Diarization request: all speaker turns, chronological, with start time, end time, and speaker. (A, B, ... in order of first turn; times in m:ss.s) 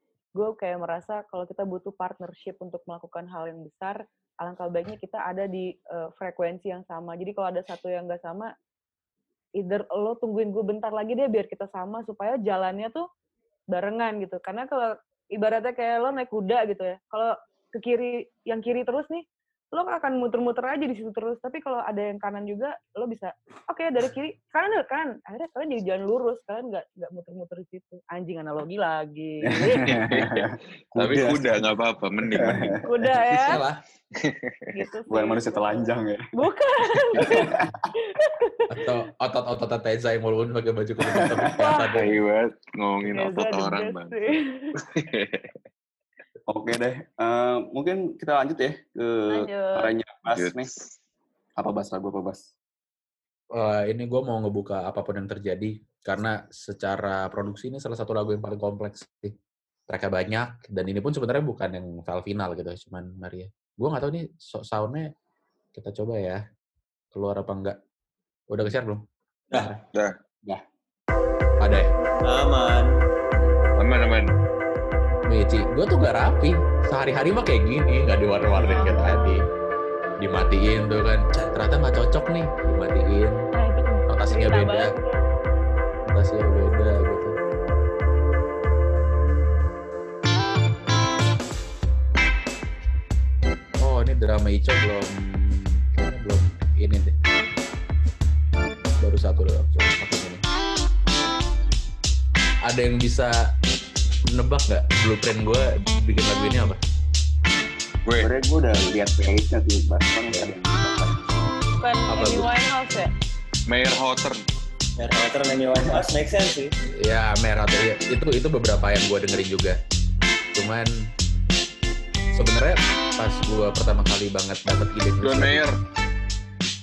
0:00.4-0:08.5 A
0:09.6-0:13.0 A
0:13.7-0:29.8 A
0:29.4-0:32.9 B
0:29.8-0:32.8 C
0:32.8-0:33.6 A
0:33.4-0:33.8 D
0:34.1-0:34.7 C
0:34.7-0:38.8 A
0:35.1-0:36.3 B
0:37.2-0:37.9 B
0:38.7-0:42.2 D
0:41.0-0:41.6 B
0:41.6-0:41.9 A
0:41.9-0:44.2 C
0:43.1-0:44.7 A
0:44.8-0:45.5 C
0:46.5-0:50.7 B
0:49.3-0:49.9 A
0:50.3-0:50.9 C
0:51.6-0:52.5 B
0:53.5-0:59.3 D
0:59.9-1:05.1 D
1:05.7-1:06.4 D
1:07.1-1:07.8 D
1:08.5-1:09.8 D
1:09.5-1:09.8 E
1:11.6-1:11.9 D
1:12.2-1:12.9 E
1:13.8-1:14.3 C
1:15.3-1:19.4 D
1:18.6-1:19.4 A
1:20.2-1:23.4 D
1:23.5-1:25.2 A
1:24.1-1:24.9 D
1:26.0-1:27.3 D
1:33.8-1:37.2 D
1:39.0-1:40.4 D
1:42.6-1:43.4 D
1:44.2-1:46.8 D
1:48.0-1:48.3 C
1:48.2-1:51.2 B
1:51.8-1:53.1 A
1:52.1-1:52.5 D
1:53.7-1:54.4 C
1:55.0-1:56.7 E
1:57.0-1:59.8 D
2:00.5-2:00.9 D
2:02.3-2:05.6 D
2:05.2-2:05.8 C